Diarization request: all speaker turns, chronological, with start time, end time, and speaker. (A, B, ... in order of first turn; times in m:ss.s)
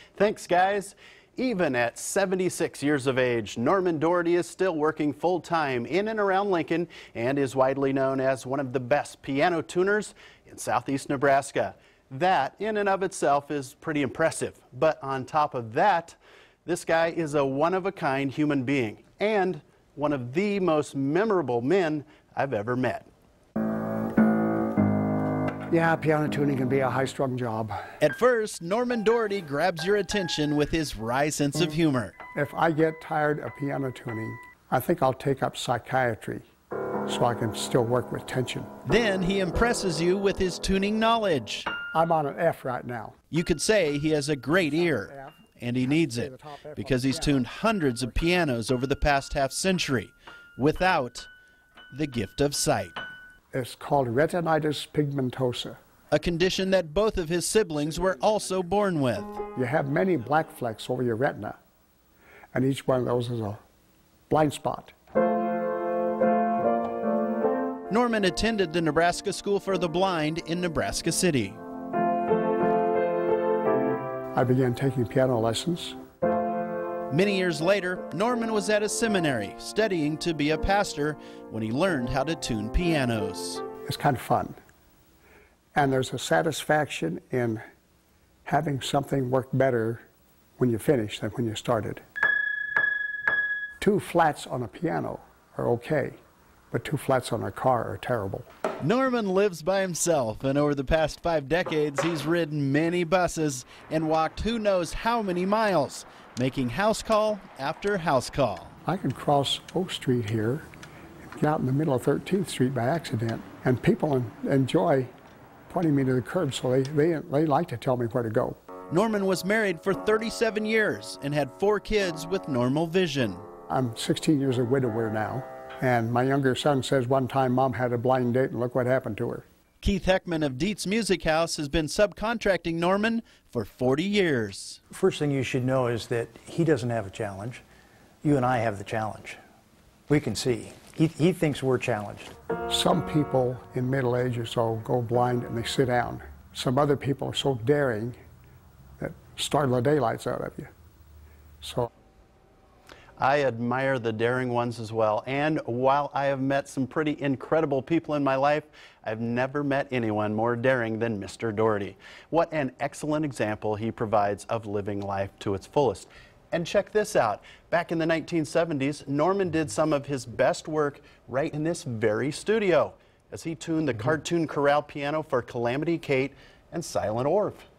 0:00.2-0:23.1 A
0:25.7-0:27.8 B
0:28.0-0:32.2 A
0:32.3-0:36.4 B
0:37.1-0:38.7 B
0:38.8-0:41.7 A
0:41.9-0:43.1 B
0:43.3-0:51.3 A
0:44.5-0:48.4 B
0:51.9-0:53.0 A
0:53.5-0:55.8 B
0:56.1-0:59.4 A
0:59.5-1:01.6 B
1:02.5-1:03.6 B
1:04.3-1:04.9 B
1:07.9-1:11.6 A
1:14.3-1:15.9 B
1:17.1-1:23.6 A
1:23.8-1:24.6 B
1:25.7-1:27.6 B
1:28.4-1:30.0 B
1:30.6-1:32.0 B
1:33.8-1:36.2 B
1:36.7-1:38.4 B
1:38.8-1:48.7 A
1:48.8-1:50.6 B
1:51.2-1:55.1 B
1:55.7-1:58.6 B
1:58.9-2:03.4 A
2:03.7-2:09.4 B
2:09.8-2:14.8 A
2:14.9-2:17.6 C
2:18.2-2:19.4 C
2:20.1-2:22.3 C
2:22.7-2:28.2 B
2:29.0-2:30.7 B
2:31.6-2:31.9 B
2:33.2-2:57.7 A